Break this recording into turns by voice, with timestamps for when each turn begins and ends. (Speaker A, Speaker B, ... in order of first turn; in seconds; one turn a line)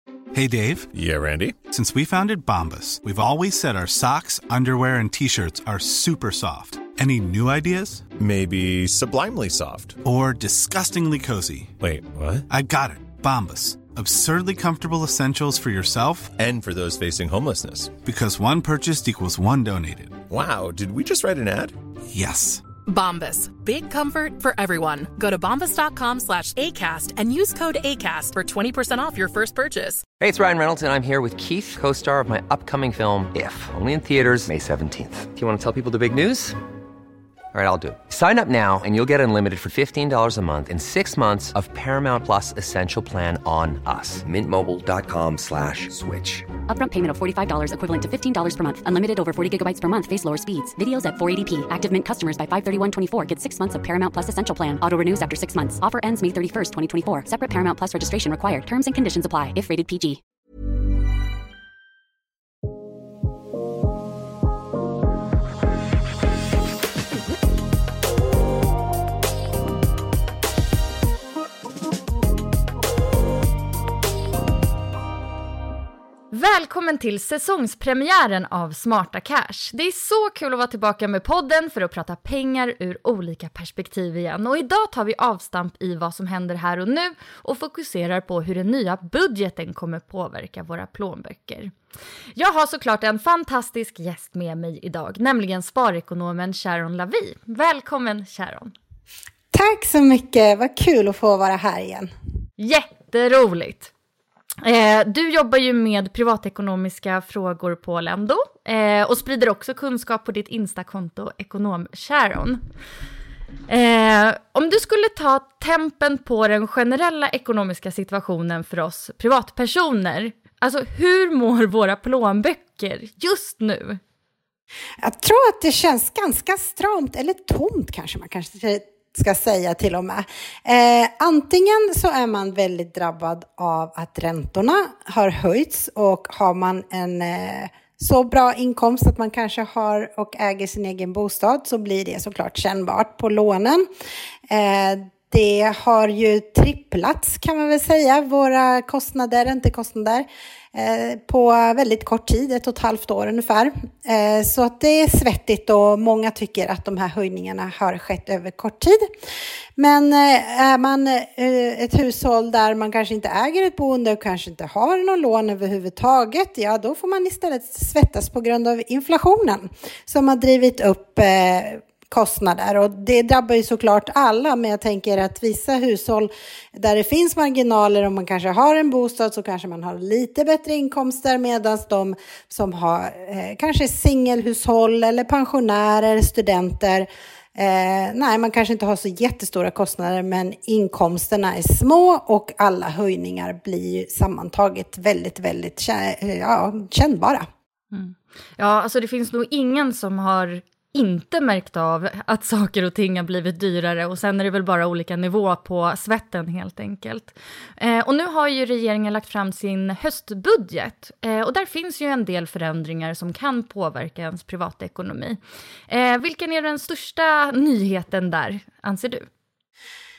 Speaker A: 0.3-0.9
Speaker B: 0.9-1.6
Speaker A: 1.7-8.1
Speaker B: 8.2-10.0
Speaker A: 10.0-11.8
Speaker B: 11.8-12.4
Speaker A: 12.5-16.3
Speaker B: 16.4-18.0
Speaker A: 18.0-20.2
Speaker B: 20.3-21.8
Speaker A: 22.1-22.6
Speaker C: 22.9-30.0
Speaker D: 30.2-36.6
Speaker D: 37.5-46.5
Speaker E: 46.7-60.2
Speaker F: 76.3-91.7
Speaker F: 92.3-98.7
Speaker G: 99.5-102.1
Speaker F: 102.6-103.9
Speaker F: 104.6-112.6
Speaker F: 113.7-124.0
Speaker G: 125.0-143.9
Speaker G: 144.5-159.1
Speaker G: 159.8-197.5
Speaker F: 197.9-219.3